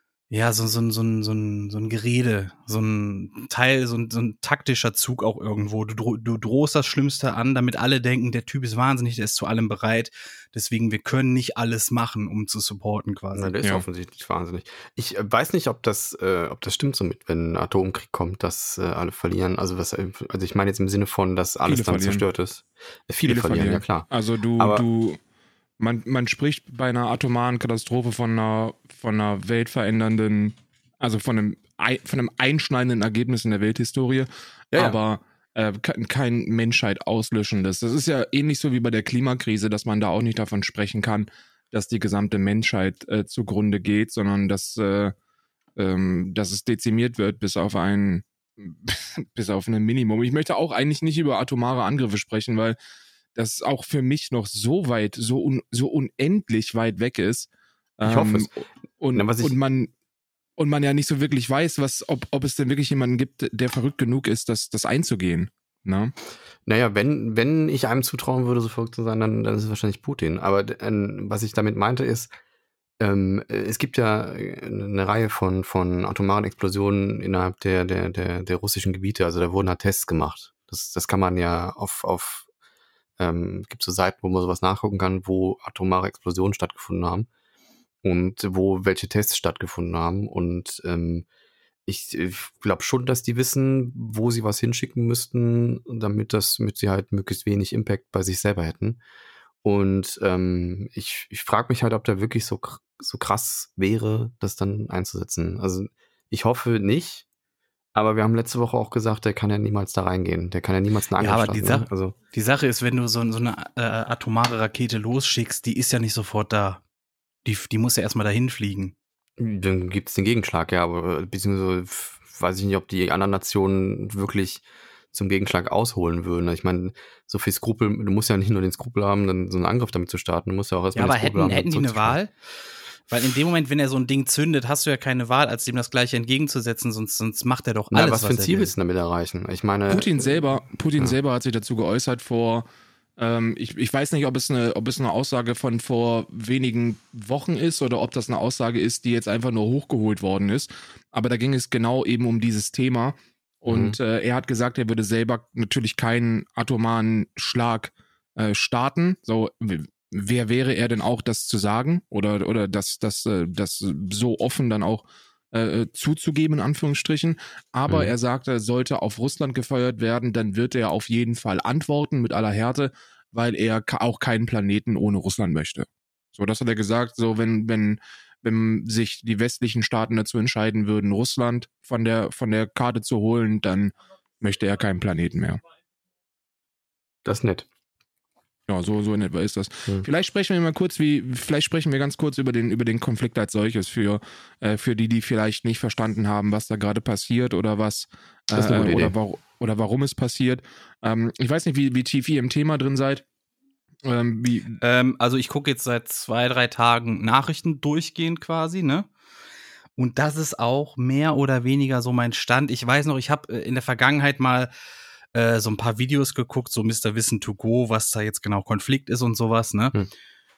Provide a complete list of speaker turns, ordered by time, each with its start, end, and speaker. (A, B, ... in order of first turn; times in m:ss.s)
0:00.3-0:13.6 A
0:13.4-0:24.8 B
0:21.7-0:22.2 C
0:23.3-0:25.2 C
0:25.8-0:45.1 C
0:34.7-0:35.0 B
0:45.8-0:52.8 C
0:53.4-0:59.9 C
0:58.0-0:58.5 B
0:59.1-0:59.6 B
1:00.6-1:06.1 C
1:06.7-1:12.3 B
1:13.0-1:22.5 B
1:23.2-1:27.3 B
1:28.0-1:31.3 B
1:31.9-1:39.0 B
1:39.6-1:47.2 B
1:48.0-1:52.2 B
1:51.2-1:56.8 A
1:57.4-1:59.0 A
1:59.4-2:12.2 B
2:11.0-2:12.3 A
2:13.1-2:18.7 A
2:17.9-2:20.4 B
2:19.9-2:22.7 C
2:23.2-3:05.6 C
2:33.7-2:34.0 B
2:47.9-2:48.1 B
3:07.2-3:07.7 B
3:08.7-3:23.2 C
3:18.5-3:19.2 B
3:24.0-3:24.8 C
3:24.8-3:29.1 A
3:30.0-3:34.7 A
3:35.3-3:40.0 A